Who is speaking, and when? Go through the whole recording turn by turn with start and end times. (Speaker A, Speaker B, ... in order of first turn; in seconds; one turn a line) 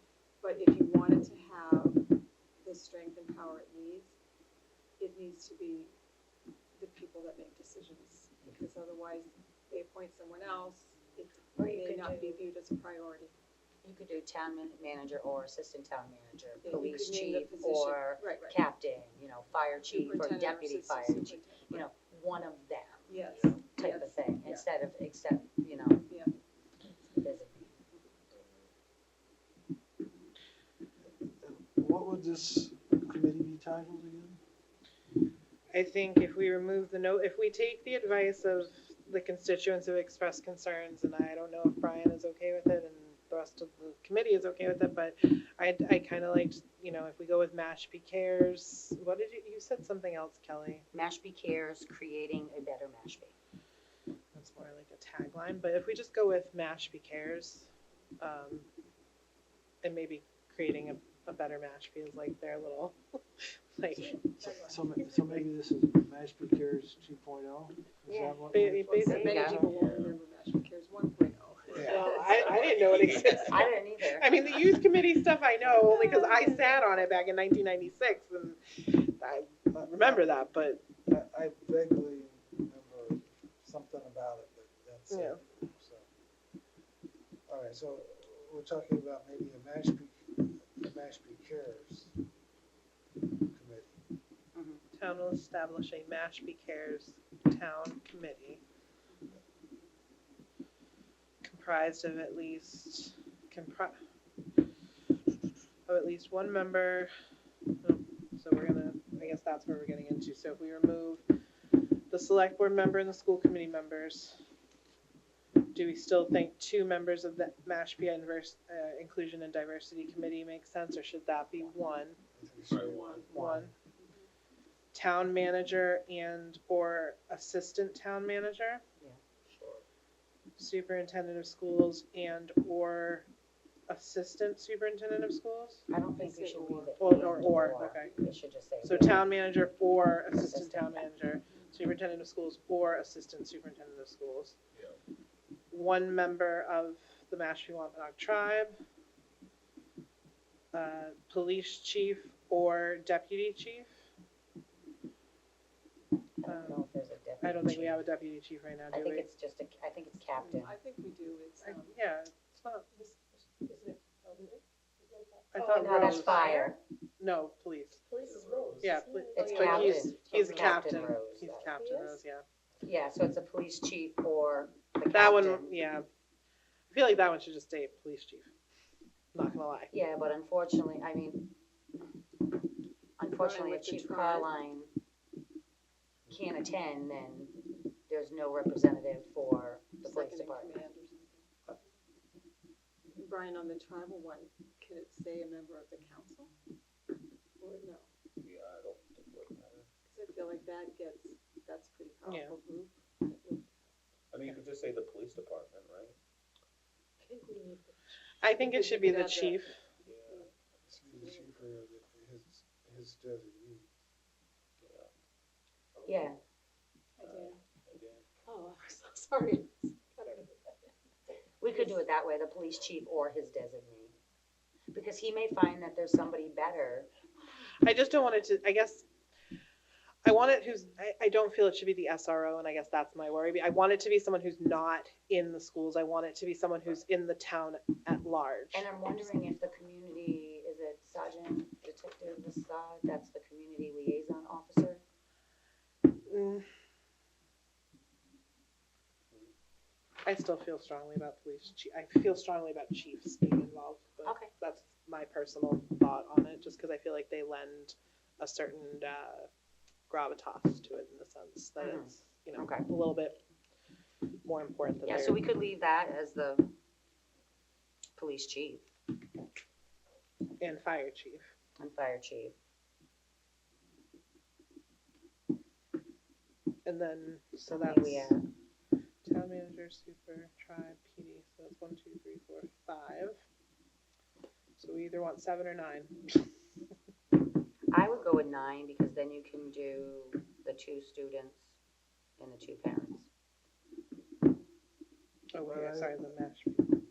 Speaker A: 0.4-2.0
Speaker A: 2.6-4.2
Speaker A: 5.0-5.9
Speaker A: 6.8-13.3
Speaker B: 11.6-12.4
Speaker B: 13.8-23.1
Speaker A: 16.6-18.6
Speaker A: 19.9-21.9
Speaker A: 23.1-24.6
Speaker C: 23.2-23.7
Speaker B: 23.7-26.1
Speaker B: 27.2-27.7
Speaker C: 28.3-28.7
Speaker D: 31.2-34.4
Speaker E: 35.7-50.9
Speaker B: 50.9-53.3
Speaker E: 54.3-57.7
Speaker E: 58.2-58.7
Speaker E: 59.8-64.2
Speaker D: 63.9-69.8
Speaker A: 64.1-65.1
Speaker B: 68.1-68.3
Speaker E: 68.5-69.5
Speaker B: 69.0-69.6
Speaker A: 69.0-73.0
Speaker C: 69.5-70.1
Speaker D: 71.7-72.0
Speaker E: 71.8-80.8
Speaker C: 72.6-73.4
Speaker B: 73.3-74.3
Speaker F: 75.8-77.0
Speaker D: 79.7-80.4
Speaker D: 81.0-86.1
Speaker E: 85.1-85.4
Speaker D: 87.5-92.1
Speaker D: 93.5-94.0
Speaker B: 94.5-94.8
Speaker E: 94.9-98.6
Speaker E: 101.4-104.0
Speaker E: 105.9-107.1
Speaker E: 107.8-111.2
Speaker E: 112.1-114.4
Speaker E: 115.7-122.2
Speaker D: 122.3-123.7
Speaker C: 122.7-123.1
Speaker A: 122.8-124.3
Speaker E: 123.3-123.7
Speaker E: 124.9-128.8
Speaker B: 129.0-129.8
Speaker E: 130.6-133.3
Speaker E: 133.9-135.8
Speaker B: 135.9-139.3
Speaker A: 136.2-137.3
Speaker E: 137.0-138.2
Speaker E: 138.8-144.6
Speaker B: 140.3-141.1
Speaker E: 145.7-148.8
Speaker E: 150.7-153.9
Speaker B: 156.4-158.0
Speaker E: 156.5-156.8
Speaker E: 157.4-159.3
Speaker B: 158.9-160.7
Speaker A: 160.4-161.9
Speaker E: 161.6-162.9
Speaker F: 163.0-166.5
Speaker A: 164.2-164.5
Speaker E: 165.5-168.0
Speaker B: 165.7-166.8
Speaker F: 168.1-170.9
Speaker C: 168.1-169.0
Speaker E: 168.8-172.4
Speaker B: 169.3-171.7
Speaker A: 169.5-170.1
Speaker F: 171.7-172.2
Speaker B: 172.8-175.8
Speaker E: 175.1-176.1
Speaker E: 176.9-178.5
Speaker E: 179.3-179.9
Speaker B: 179.9-181.5
Speaker B: 183.2-184.9
Speaker A: 183.2-184.5
Speaker B: 186.3-190.7
Speaker A: 190.0-191.7
Speaker A: 193.2-196.5
Speaker A: 197.6-198.1
Speaker C: 198.4-199.8
Speaker A: 200.1-203.9
Speaker E: 202.2-202.6
Speaker C: 204.3-206.2
Speaker F: 207.2-207.9
Speaker E: 208.4-209.8
Speaker A: 208.6-209.7
Speaker C: 210.0-210.5
Speaker D: 210.9-213.9
Speaker A: 211.1-211.5
Speaker C: 214.8-215.1
Speaker B: 216.0-216.4
Speaker A: 217.2-217.6
Speaker C: 217.2-218.3
Speaker F: 218.4-220.4
Speaker A: 220.2-220.5
Speaker B: 221.6-224.1
Speaker B: 224.9-227.1
Speaker E: 227.8-229.0
Speaker E: 230.2-238.9
Speaker B: 238.7-245.0
Speaker E: 246.3-246.7
Speaker E: 250.2-259.5
Speaker B: 254.2-254.5
Speaker E: 260.1-263.4
Speaker B: 261.8-262.9
Speaker E: 264.4-265.4
Speaker B: 265.0-266.7
Speaker B: 268.1-268.9
Speaker E: 270.6-271.4
Speaker B: 271.8-272.5
Speaker E: 276.8-278.3
Speaker B: 277.7-278.5
Speaker E: 279.2-283.4
Speaker E: 284.8-286.4
Speaker B: 287.9-291.8
Speaker B: 292.4-293.3
Speaker E: 295.5-296.9
Speaker D: 295.6-296.3